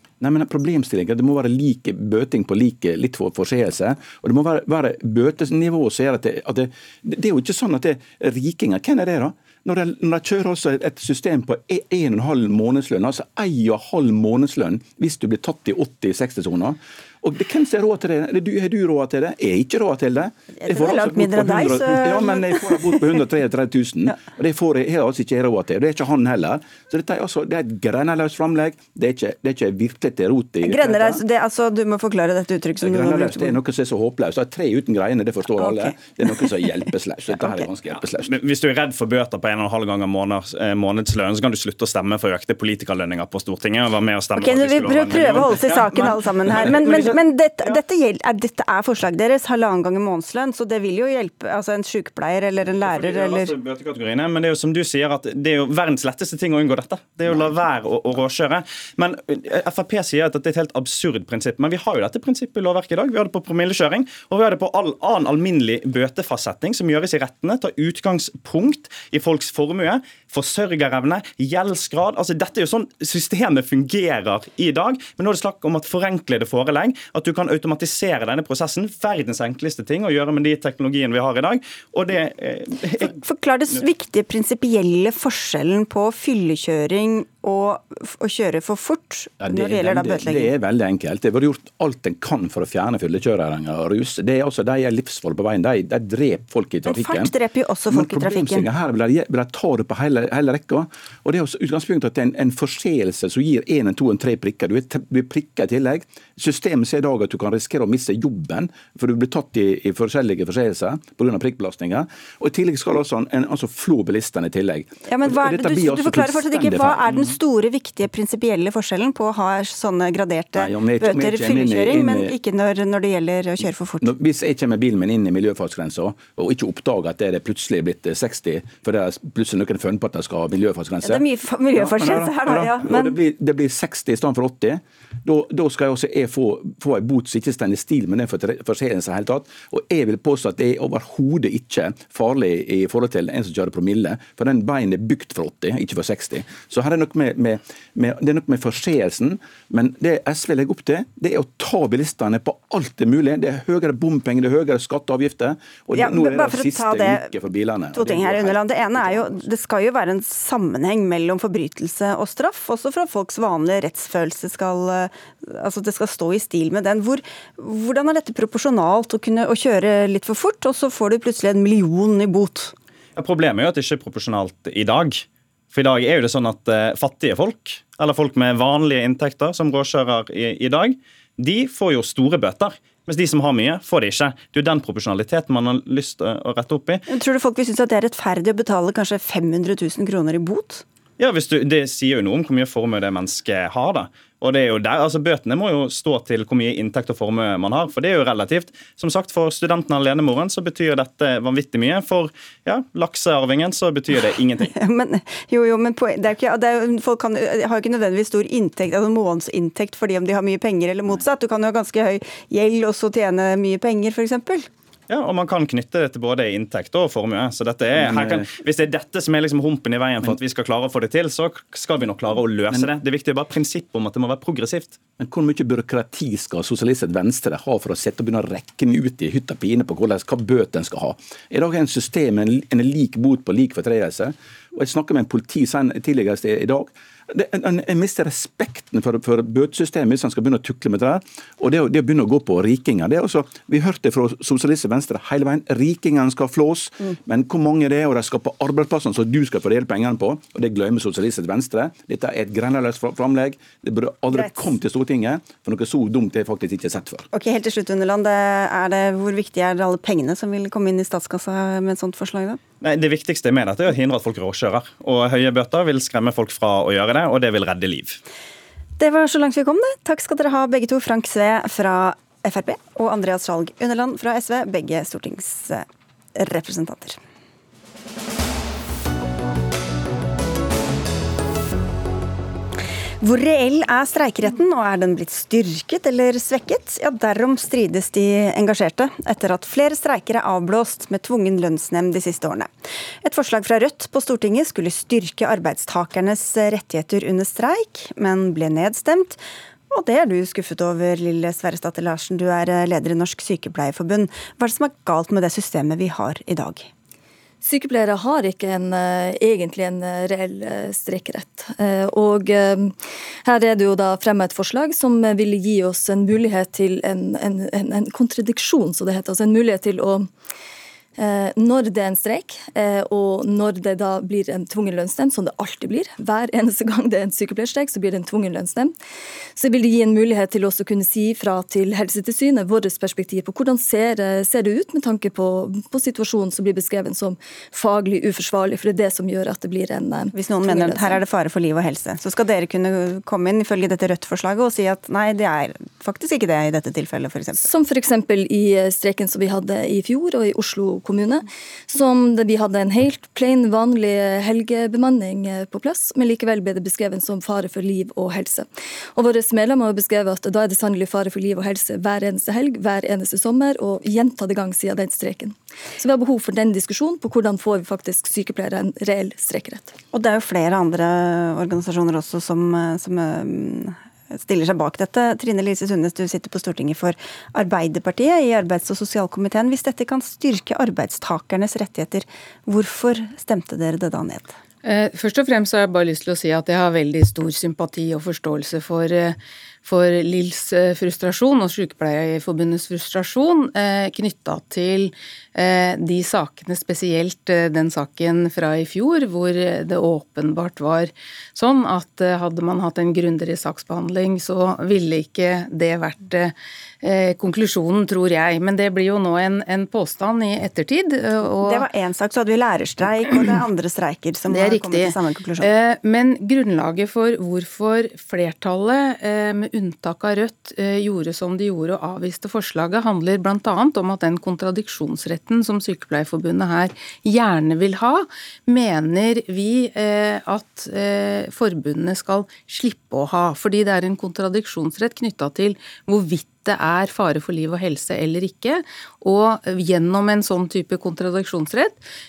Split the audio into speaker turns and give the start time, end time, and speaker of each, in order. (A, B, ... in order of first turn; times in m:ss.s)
0:00.2-0:31.2 A
0:20.6-0:23.2 B
0:30.6-0:33.6 B
0:32.8-0:38.3 A
0:35.6-0:36.5 B
0:37.4-0:37.6 B
0:38.2-0:47.7 C
0:44.4-0:53.5 B
0:52.8-1:23.1 C
1:23.0-1:30.5 B
1:29.4-1:37.3 A
1:36.9-1:38.7 B
1:37.9-1:57.2 A
1:55.0-2:04.1 B
2:00.6-2:02.3 A
2:04.0-2:39.3 A
2:11.0-2:13.2 B
2:35.9-2:37.3 B
2:37.9-2:52.7 B
2:53.2-3:07.0 C
3:07.1-3:10.8 B
3:11.2-3:24.7 C
3:24.6-3:34.7 B
3:35.1-3:45.0 C
3:37.9-3:38.5 A
3:45.2-4:17.2 A
4:14.3-4:14.7 B
4:17.3-4:22.6 B
4:22.8-4:28.2 C
4:29.0-4:37.2 B
4:43.2-4:52.7 B
4:53.2-5:06.9 B
5:07.6-5:20.3 D
5:21.2-5:28.9 D
5:29.6-5:41.2 D
5:40.3-5:47.7 B
5:47.5-6:09.9 D
6:10.1-6:24.5 B
6:24.8-6:51.9 E
6:51.6-6:55.7 B
6:54.5-7:22.0 E